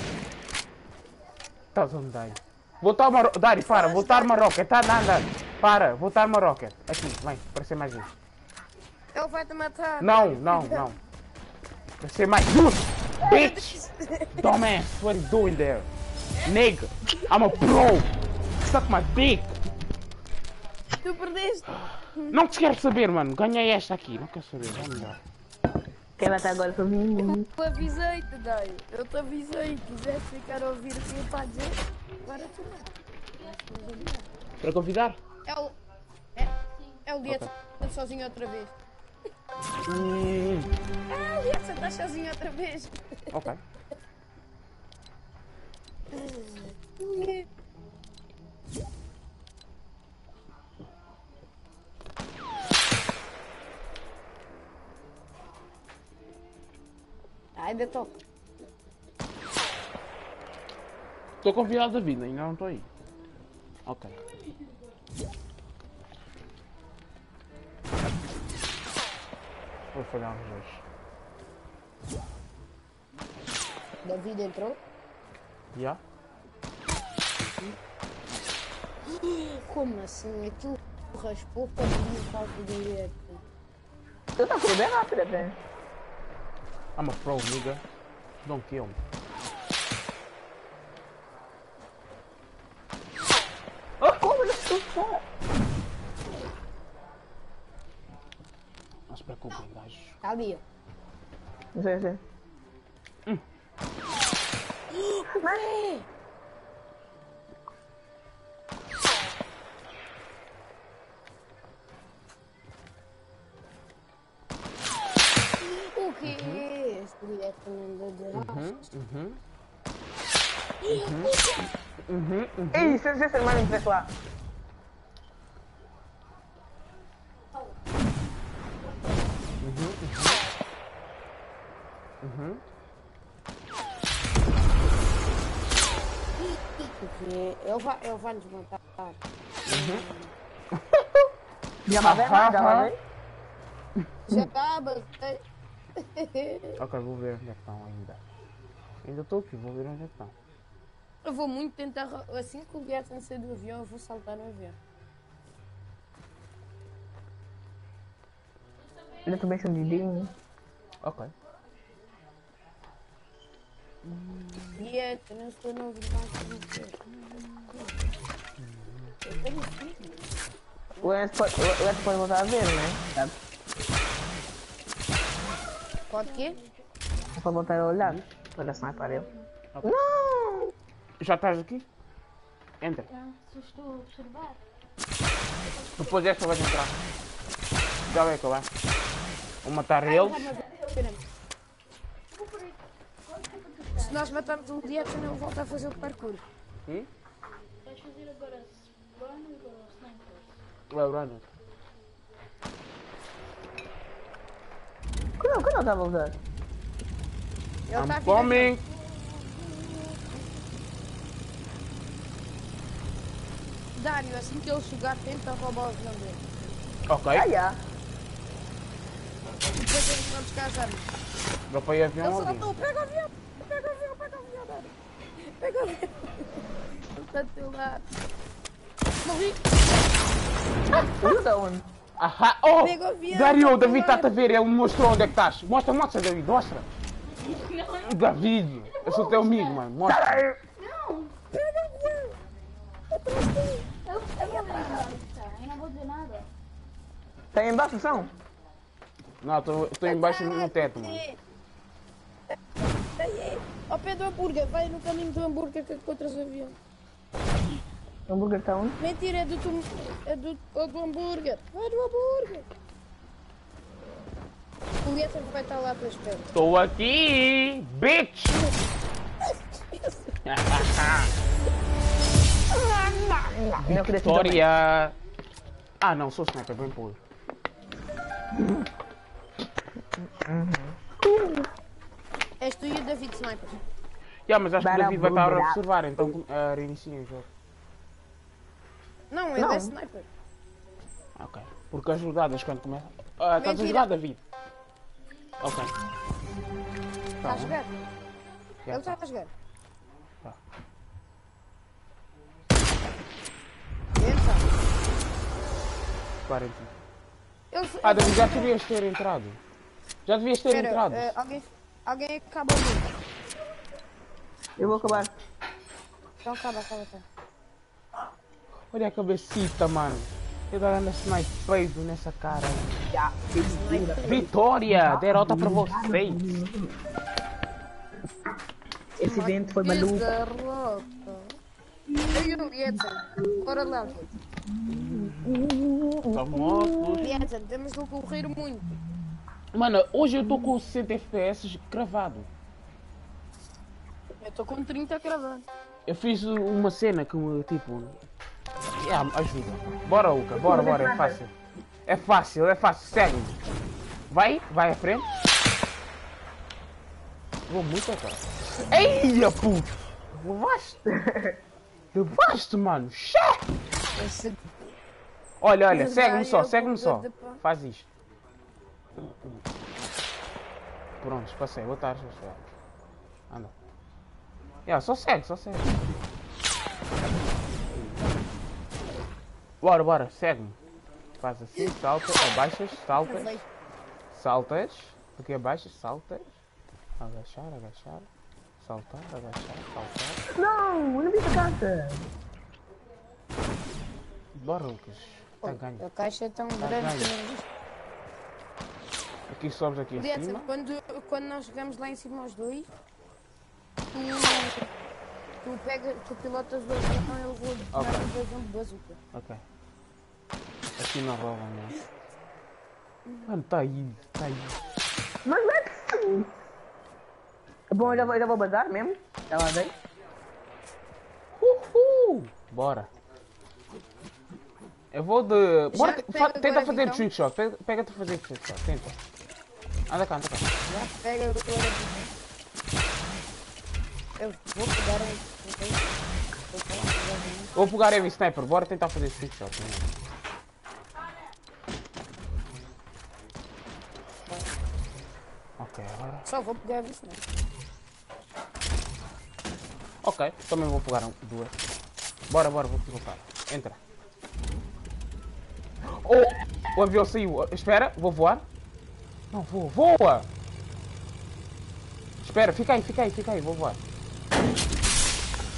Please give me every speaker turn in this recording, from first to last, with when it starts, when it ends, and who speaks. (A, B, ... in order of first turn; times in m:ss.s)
0:01.7-0:08.1 A
0:03.6-0:04.4 B
0:09.1-0:10.9 B
0:10.0-0:11.0 A
0:12.0-0:13.8 A
0:13.2-0:14.6 B
0:14.4-0:15.9 A
0:16.4-0:19.6 A
0:21.0-0:22.4 B
0:22.3-0:25.2 A
0:26.2-0:27.5 C
0:27.2-0:32.9 B
0:33.4-0:34.2 B
0:34.6-0:35.2 A
0:35.4-0:35.8 B
0:36.7-0:37.0 D
0:37.0-0:38.7 B
0:39.9-0:40.7 A
0:41.1-0:43.5 B
0:43.3-0:43.6 A
0:46.1-0:47.4 B
0:57.6-0:58.2 B
1:01.4-1:02.9 A
1:03.9-1:04.2 A
1:09.8-1:10.8 A
1:14.0-1:14.8 B
1:15.7-1:16.0 A
1:19.1-1:23.4 B
1:24.4-1:25.6 C
1:27.0-1:27.8 A
1:28.4-1:29.0 A
1:34.0-1:35.2 C
1:39.1-1:40.2 A
1:40.2-1:40.6 B
1:41.8-1:42.2 C
1:44.9-1:46.1 B
1:45.3-1:45.6 C
1:55.6-1:58.7 B
1:56.2-1:56.6 A
1:58.3-1:59.4 A
2:00.8-2:01.6 B
2:00.9-2:01.4 A
2:02.0-2:03.0 A
2:02.7-2:04.1 C
2:09.6-2:10.4 A
2:12.2-2:12.6 A
2:16.8-2:19.2 B
2:19.7-2:20.3 B
2:19.7-2:20.0 A
2:20.7-2:21.3 A
2:21.9-2:23.0 C
2:22.0-2:22.9 A
2:24.3-2:25.4 B
2:26.0-2:26.8 B
2:26.8-2:28.2 A
2:29.0-2:30.4 A
2:31.2-2:34.8 B
2:39.1-2:39.6 D
2:39.2-2:40.3 C
2:41.0-2:41.3 A
2:44.0-2:44.8 A
2:44.8-2:47.0 B
2:48.6-2:49.2 A
2:51.0-2:53.4 C
2:56.1-2:56.6 B
2:56.1-2:56.9 D
2:57.4-2:59.3 C
2:59.0-2:59.5 D
2:59.8-3:00.7 C
3:01.2-3:01.8 A
3:02.8-3:03.1 A
3:03.1-3:04.6 D
3:05.7-3:06.2 D
3:06.0-3:06.9 A
3:08.1-3:08.7 A
3:09.6-3:10.5 A
3:10.0-3:11.2 B
3:10.5-3:11.0 D
3:12.3-3:16.0 D
3:14.0-3:16.4 B
3:17.8-3:20.6 D
3:20.9-3:21.4 A
3:25.4-3:26.4 C
3:27.9-3:28.8 B
3:27.9-3:28.8 A
3:34.0-3:36.4 B
3:37.1-3:37.4 A
3:37.3-3:37.8 C
3:39.8-3:41.0 B
3:41.7-3:42.7 A
3:42.2-3:44.9 B
3:45.4-3:46.6 B
3:47.1-3:48.0 B
3:49.2-3:49.6 B
3:50.9-3:51.3 B
3:51.0-3:51.8 C
3:52.2-3:56.9 A
3:52.8-3:54.4 B
3:57.3-3:58.2 D
3:58.0-4:00.4 A
3:58.9-3:59.9 D
4:00.0-4:00.6 C
4:00.8-4:01.4 D
4:01.5-4:02.3 B
4:03.1-4:03.8 B
4:04.0-4:06.5 D
4:04.4-4:04.9 B
4:07.5-4:08.3 C
4:09.4-4:11.2 A
4:10.1-4:11.4 B
4:13.2-4:16.8 B
4:18.3-4:19.0 C
4:19.0-4:22.7 B
4:25.0-4:26.5 B
4:26.5-4:28.6 A
4:29.5-4:30.4 B
4:30.5-4:31.3 A
4:32.7-4:34.7 C
4:33.8-4:35.2 A
4:36.0-4:37.2 A
4:38.5-4:38.8 C
4:40.2-4:41.6 C
4:42.6-4:43.8 B
4:44.5-4:47.5 A
4:44.8-4:46.4 C
4:49.3-4:50.3 B
4:49.6-4:50.0 C
4:51.4-4:54.4 A
4:53.6-4:54.1 B
4:55.6-4:55.9 A
4:57.4-4:57.8 A
4:57.4-4:57.9 B
4:58.9-4:59.2 A
4:58.9-4:59.5 B
5:04.2-5:04.7 B
5:06.5-5:06.9 A
5:07.7-5:08.7 B
5:08.0-5:09.6 A
5:10.3-5:11.3 A
5:10.7-5:13.1 B
5:14.8-5:15.3 C
5:14.8-5:15.3 A
5:16.4-5:17.2 B
5:18.9-5:23.0 A
5:23.1-5:27.0 C
5:23.7-5:24.5 B
5:24.2-5:26.6 A
5:29.2-5:30.3 C
5:29.2-5:31.5 B
5:32.3-5:34.3 B
5:34.7-5:37.3 C
5:34.9-5:35.7 A
5:36.3-5:37.3 A
5:37.2-5:38.9 B
5:39.7-5:42.5 A
5:44.4-5:45.6 B
5:46.1-5:48.2 A
5:49.0-5:51.5 A
5:50.5-5:51.4 C
5:52.1-5:53.6 A
5:54.3-5:55.3 A
5:57.7-6:01.0 A
6:01.1-6:01.6 C
6:02.1-6:03.6 A
6:04.2-6:04.7 B
6:05.6-6:08.1 A
6:05.9-6:07.6 B
6:11.2-6:12.6 A
6:14.9-6:16.3 A
6:17.9-6:18.2 A
6:19.8-6:20.8 A
6:21.4-6:23.6 A
6:23.2-6:23.7 B
6:24.3-6:26.5 A
6:27.2-6:28.3 A
6:28.8-6:30.4 A
6:30.5-6:32.3 C
6:34.5-6:36.0 A
6:35.6-6:37.7 B
6:36.8-6:37.3 A
6:39.5-6:40.7 A
6:40.2-6:42.9 B
6:44.1-6:44.9 B
6:45.6-6:49.2 B
6:47.9-6:48.3 A
6:49.3-6:49.6 A
6:51.0-6:52.0 A
6:53.5-6:54.8 A
6:55.4-6:56.5 C
6:57.9-6:59.9 C
6:58.0-6:58.3 A
7:01.6-7:03.1 A
7:05.1-7:09.2 A
7:05.9-7:07.3 B
7:10.1-7:10.7 A
7:10.9-7:12.3 B
7:14.4-7:16.2 B
7:16.7-7:17.8 B
7:17.8-7:20.1 A
7:24.5-7:24.7 B
7:25.8-7:26.4 A
7:26.4-7:27.4 B
7:30.2-7:31.8 A
7:32.5-7:34.0 A
7:36.0-7:38.6 A
7:39.5-7:40.5 A
7:42.4-7:44.0 A